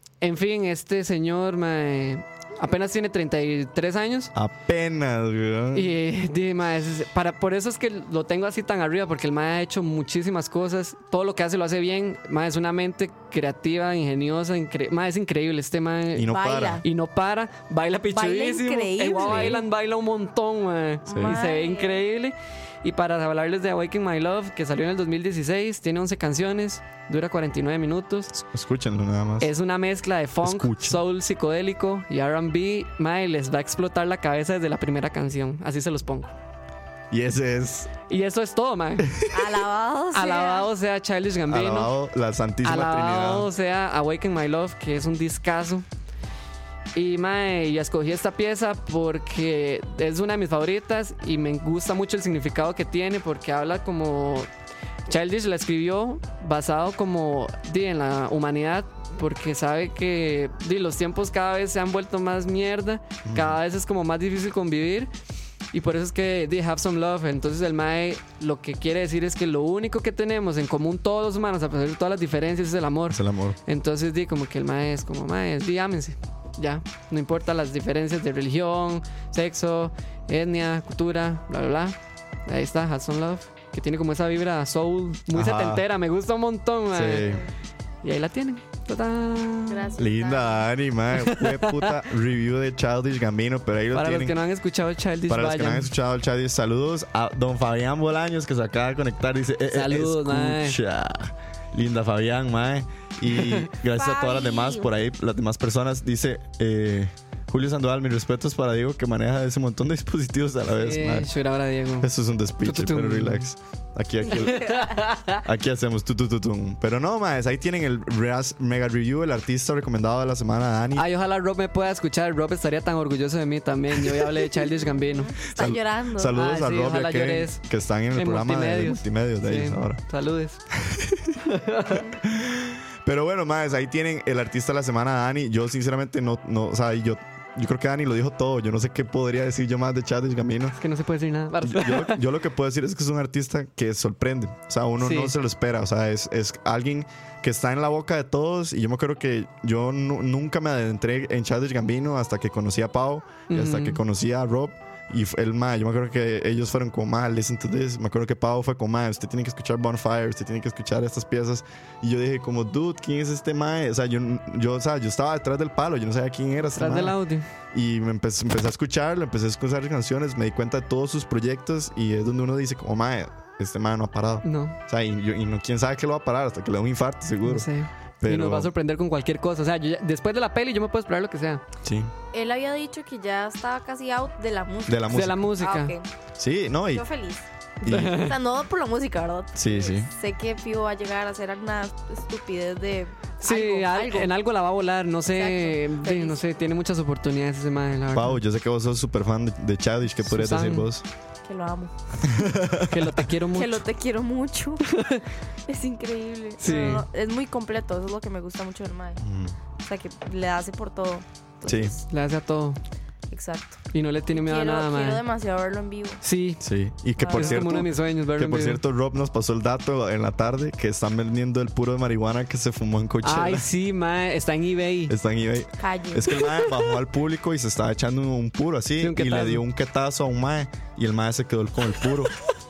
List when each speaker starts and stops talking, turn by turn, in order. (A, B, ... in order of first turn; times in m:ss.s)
0:00.2-0:04.3 A
0:04.4-0:05.9 B
0:05.7-0:16.3 A
0:16.1-0:16.8 B
0:16.3-0:16.8 C
0:16.8-0:28.4 A
0:18.1-0:19.6 C
0:19.2-0:19.6 B
0:21.1-0:22.0 C
0:21.1-0:21.4 B
0:28.4-0:29.5 B
0:29.4-0:36.3 A
0:30.4-0:31.0 B
0:37.1-0:37.9 B
0:38.1-0:39.1 A
0:39.1-0:39.6 B
0:39.3-0:40.7 C
0:40.1-0:41.9 A
0:41.5-0:43.5 B
0:42.6-0:45.8 A
0:47.0-0:54.5 A
0:55.1-1:05.1 A
1:03.2-1:03.6 B
1:05.7-1:27.3 A
1:13.1-1:13.6 B
1:25.3-1:25.8 B
1:26.9-1:27.5 B
1:27.2-1:27.5 C
1:28.0-1:29.9 A
1:29.7-1:30.7 C
1:30.0-1:34.4 B
1:31.1-1:32.0 A
1:33.9-1:35.9 A
1:35.3-1:51.3 B
1:39.7-1:40.8 A
1:43.3-1:43.7 A
1:43.9-1:44.9 C
1:50.8-1:52.1 A
1:52.0-2:01.1 B
1:52.6-1:53.5 A
1:54.3-1:55.4 A
1:54.4-1:54.8 C
2:01.0-2:05.4 A
2:04.1-2:04.4 B
2:04.7-2:06.4 C
2:05.5-2:10.0 B
2:06.3-2:07.6 A
2:08.1-2:10.6 A
2:10.7-2:11.4 B
2:11.4-2:12.1 A
2:12.2-2:20.8 B
2:20.8-2:22.2 A
2:21.6-2:47.2 B
2:25.0-2:25.3 A
2:33.5-2:34.0 A
2:46.7-2:47.5 A
2:47.7-2:57.7 B
2:54.4-2:54.8 A
2:57.4-3:01.6 A
2:58.2-2:58.7 B
3:01.8-3:02.1 B
3:02.3-3:06.1 C
3:04.9-3:05.5 B
3:05.1-3:05.9 A
3:06.4-3:07.0 B
3:06.9-3:07.5 C
3:07.8-3:08.4 A
3:07.8-3:08.2 B
3:08.0-3:14.3 C
3:09.6-3:10.1 B
3:13.4-3:18.4 A
3:15.3-3:16.4 C
3:18.1-3:21.0 B
3:20.2-3:20.9 A
3:21.4-3:22.5 C
3:22.3-3:23.1 B
3:22.8-3:23.8 A
3:23.5-3:25.0 C
3:24.9-3:25.2 A
3:25.7-3:29.2 C
3:26.6-3:27.0 A
3:29.2-3:29.6 B
3:29.8-3:32.0 C
3:31.7-3:32.0 B
3:32.1-3:32.8 A
3:33.3-3:33.8 C
3:33.9-3:35.2 A
3:34.3-3:36.2 C
3:36.2-3:36.6 A
3:36.6-3:43.7 B
3:37.2-3:37.7 C
3:37.3-3:38.8 A
3:43.2-3:45.1 A
3:45.1-3:52.3 B
3:45.8-3:46.5 C
3:49.0-3:49.6 A